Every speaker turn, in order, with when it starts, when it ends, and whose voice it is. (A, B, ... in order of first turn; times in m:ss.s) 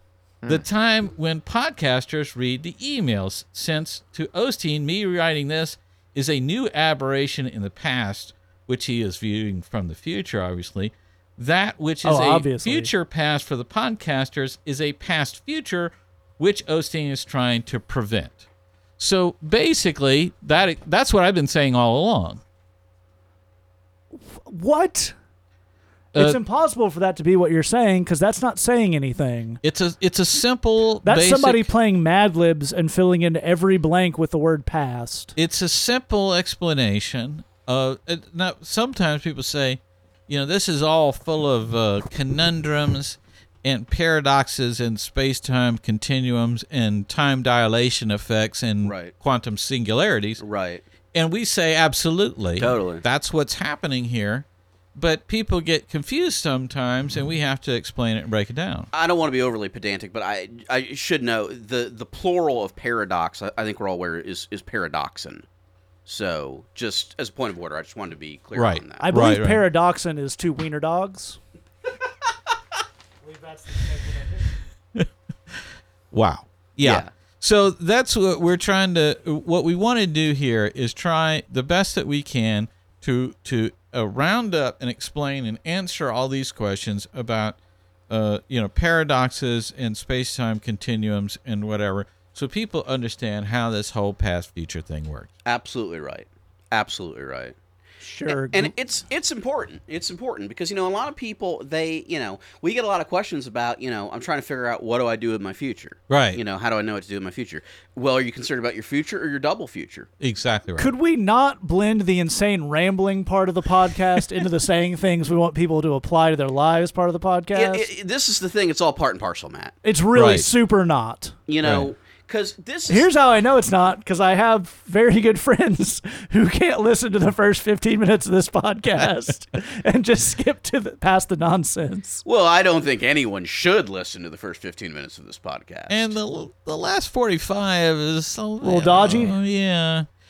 0:00.5-0:18.4 A
0:12.0-0:12.9 B
0:19.0-0:22.4 A
0:24.1-0:25.1 B
0:26.1-0:29.6 B
0:29.6-0:31.7 A
0:31.0-0:35.3 B
0:35.4-0:50.4 A
0:48.8-0:49.1 C
0:50.4-0:50.8 C
0:51.1-0:58.9 A
0:52.6-0:53.0 C
0:58.9-1:05.4 C
1:06.0-1:09.0 C
1:08.5-1:09.6 A
1:09.0-1:11.4 B
1:13.2-1:14.5 B
1:14.9-1:15.6 A
1:16.1-1:27.6 A
1:16.8-1:17.1 C
1:28.1-1:35.3 A
1:35.4-1:37.5 C
1:38.0-1:38.7 B
1:38.3-1:50.1 C
1:46.1-1:46.4 A
1:50.2-1:50.9 A
1:50.8-1:57.9 B
1:57.5-1:59.7 C
1:59.8-2:01.3 B
2:00.1-2:00.4 A
2:01.5-2:03.1 C
2:02.9-2:12.2 B
2:12.2-2:16.1 C
2:15.9-2:20.1 A
2:18.6-2:19.3 B